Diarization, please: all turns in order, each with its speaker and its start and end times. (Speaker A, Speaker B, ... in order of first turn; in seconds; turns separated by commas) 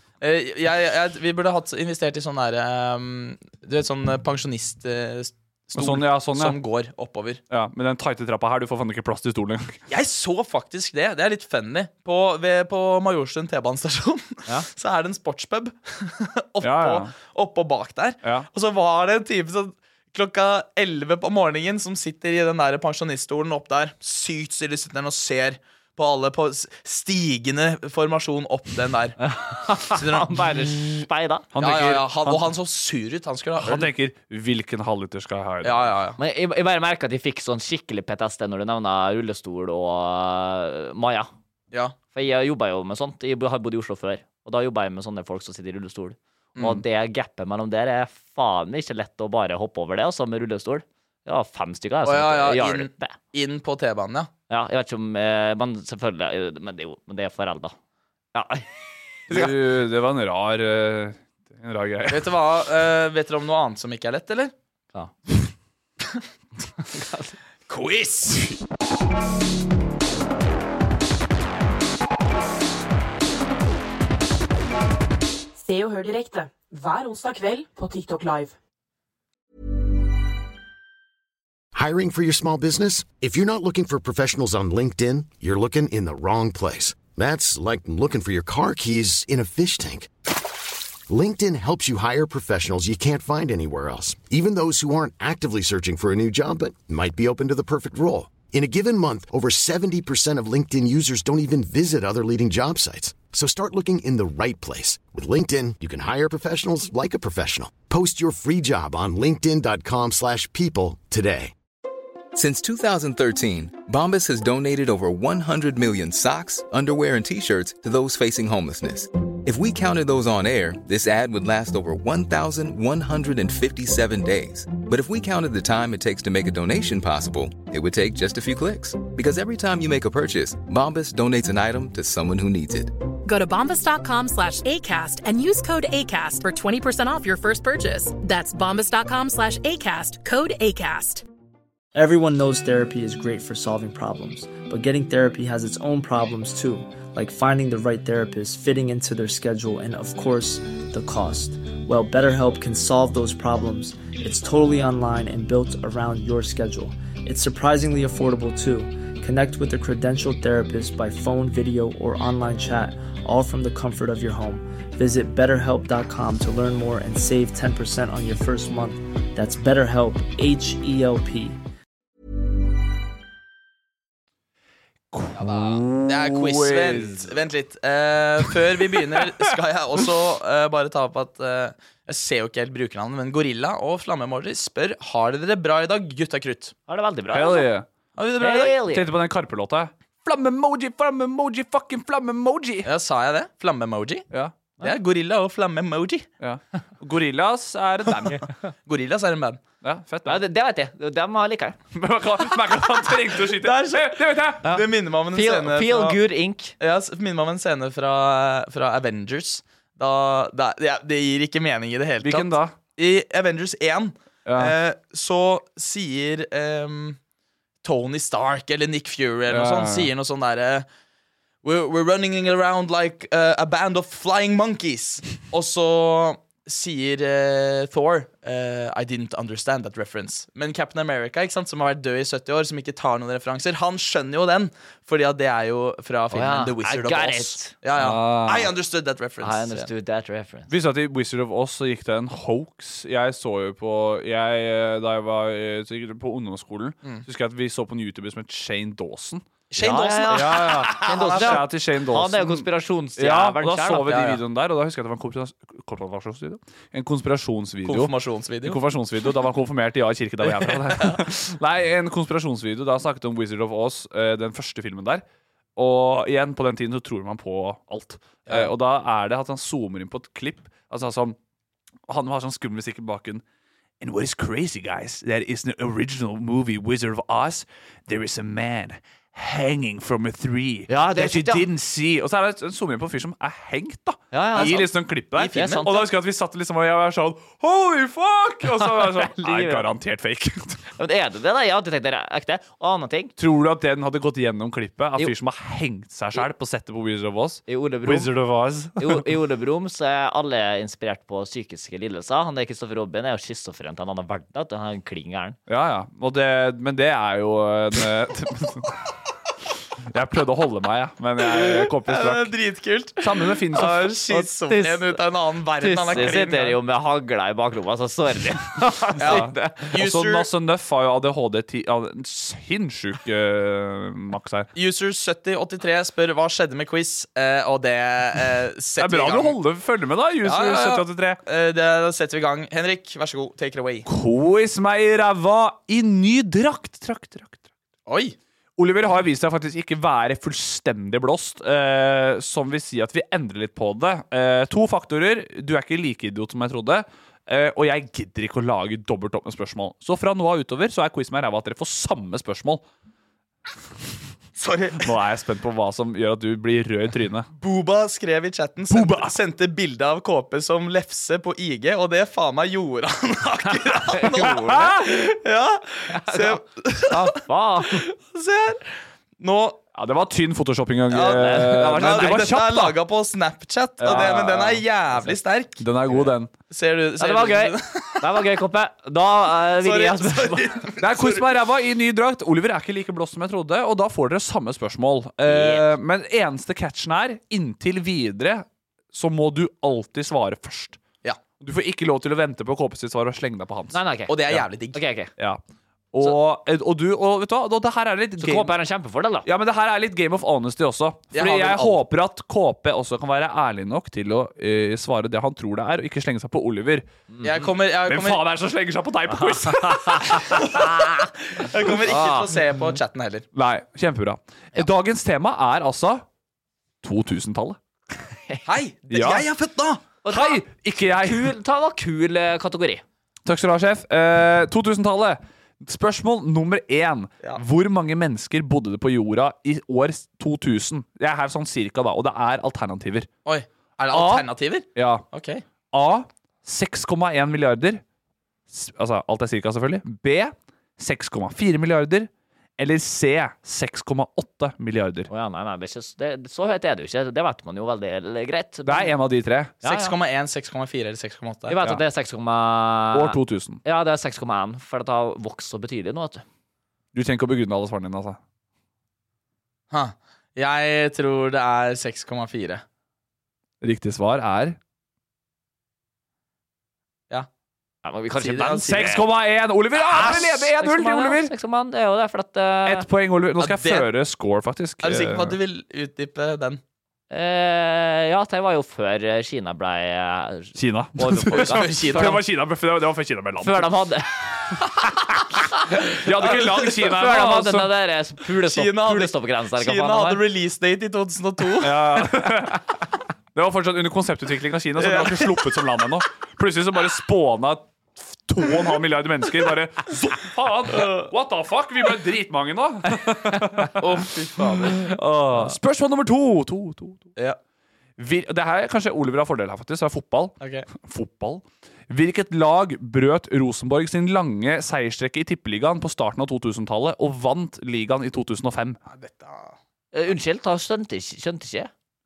Speaker A: 0.2-7.4, Speaker B: 5.8-6.6, Speaker B: 7.5-9.8, Speaker A: 9.9-29.2, Speaker B: 16.6-17.1, Speaker C: 29.2-31.5, Speaker A: 29.8-31.0, Speaker B: 31.5-32.5, Speaker A: 31.6-33.9, Speaker B: 33.6-35.9, Speaker A: 35.6-36.2, Speaker C: 36.2-41.3, Speaker C: 42.1-53.1, Speaker A: 46.6-46.8, Speaker A: 52.0-54.3, Speaker C: 54.5-57.7, Speaker C: 58.3-59.5, Speaker B: 59.3-62.3, Speaker A: 62.1-64.5, Speaker C: 66.8-67.3, Speaker A: 67.7-68.5, Speaker D: 75.5-78.5, Speaker E: 81.7-90.1, Speaker E: 91.1-111.5, Speaker F: 112.3-132.9, Speaker G: 133.2-141.2, Speaker H: 141.9-171.6, Speaker B: 175.1-177.3, Speaker A: 175.3-186.7, Speaker C: 186.9-187.7, Speaker B: 187.3-187.8, Speaker A: 188.2-188.8, Speaker C: 188.4-189.1, Speaker B: 188.9-192.9, Speaker A: 192.8-194.2, Speaker A: 194.8-196.3, Speaker B: 196.4-198.5, Speaker A: 198.8-199.6, Speaker B: 199.8-200.4, Speaker C: 200.2-201.8, Speaker B: 201.9-204.8, Speaker A: 203.5-206.2, Speaker C: 205.3-206.7, Speaker A: 206.8-217.2, Speaker B: 212.2-212.7, Speaker B: 214.4-214.7, Speaker A: 217.8-220.8, Speaker B: 219.5-220.1, Speaker A: 221.6-239.9, Speaker C: 236.3-237.7, Speaker B: 237.9-238.7, Speaker C: 239.4-240.7, Speaker B: 240.7-249.4, Speaker A: 249.7-251.6, Speaker C: 249.8-254.4, Speaker B: 250.3-258.1, Speaker A: 257.8-258.8, Speaker B: 258.6-265.2, Speaker A: 260.6-261.1, Speaker B: 265.8-271.4, Speaker B: 272.1-273.4, Speaker B: 274.0-290.8, Speaker C: 280.9-281.6, Speaker C: 284.3-284.8, Speaker A: 284.6-285.9, Speaker C: 285.5-286.1, Speaker C: 288.8-289.9, Speaker C: 291.0-293.3, Speaker B: 293.4-299.2, Speaker C: 297.7-298.3, Speaker C: 299.0-305.6, Speaker B: 305.7-308.9, Speaker B: 310.1-312.5, Speaker A: 311.4-316.8, Speaker B: 313.2-314.2, Speaker C: 314.3-315.2, Speaker C: 315.8-319.9, Speaker A: 319.2-320.5, Speaker B: 319.2-324.7, Speaker A: 324.7-329.6, Speaker B: 329.0-331.4, Speaker A: 330.4-334.1, Speaker B: 334.1-337.6, Speaker A: 338.1-338.4, Speaker B: 338.8-352.8, Speaker A: 354.6-355.1, Speaker B: 355.0-357.5, Speaker A: 357.6-367.4, Speaker B: 358.9-359.3, Speaker C: 364.1-364.8, Speaker B: 364.3-364.9, Speaker C: 366.1-368.0, Speaker A: 368.0-369.8, Speaker B: 369.9-372.9, Speaker A: 371.1-375.8, Speaker C: 371.3-372.4, Speaker B: 374.0-376.5, Speaker A: 376.7-378.3, Speaker C: 377.2-380.7, Speaker A: 379.8-381.5, Speaker B: 381.0-391.0, Speaker C: 385.4-385.9, Speaker B: 391.6-394.6, Speaker C: 393.9-394.4, Speaker A: 394.3-395.0, Speaker C: 394.9-395.3, Speaker B: 396.1-398.7, Speaker C: 398.4-399.4, Speaker B: 399.4-407.0, Speaker A: 401.3-402.0, Speaker C: 407.3-407.7, Speaker A: 407.4-408.4, Speaker B: 408.1-410.8, Speaker C: 409.3-410.8, Speaker A: 410.4-413.4, Speaker C: 412.1-412.4, Speaker B: 413.5-416.2, Speaker B: 417.0-417.8, Speaker A: 418.6-420.0, Speaker B: 419.1-419.4, Speaker C: 420.2-423.0, Speaker B: 420.3-421.5, Speaker B: 423.4-433.3, Speaker A: 433.4-435.6, Speaker B: 434.1-435.2, Speaker B: 435.9-438.0, Speaker B: 438.7-445.3, Speaker C: 445.3-449.1, Speaker B: 448.9-449.7, Speaker C: 449.8-450.1, Speaker A: 449.8-451.8, Speaker C: 451.7-456.4, Speaker B: 453.1-453.8, Speaker B: 457.1-458.4, Speaker A: 459.9-462.8, Speaker B: 463.8-464.8, Speaker C: 468.0-469.2, Speaker A: 468.4-469.1, Speaker B: 468.8-471.5, Speaker C: 470.1-473.1, Speaker B: 472.9-475.6, Speaker A: 473.6-474.1, Speaker A: 475.0-476.8, Speaker C: 477.3-482.3, Speaker B: 480.7-483.9, Speaker A: 481.5-482.4, Speaker C: 483.6-484.3, Speaker B: 486.1-487.9, Speaker A: 486.4-486.7, Speaker C: 486.4-490.4, Speaker A: 488.6-492.2, Speaker B: 491.8-492.8, Speaker B: 493.5-504.2, Speaker A: 495.0-495.8, Speaker A: 500.9-501.2, Speaker A: 504.0-505.1, Speaker B: 504.9-507.3, Speaker B: 508.2-519.0, Speaker A: 510.6-510.9, Speaker A: 519.1-519.8, Speaker C: 520.1-521.9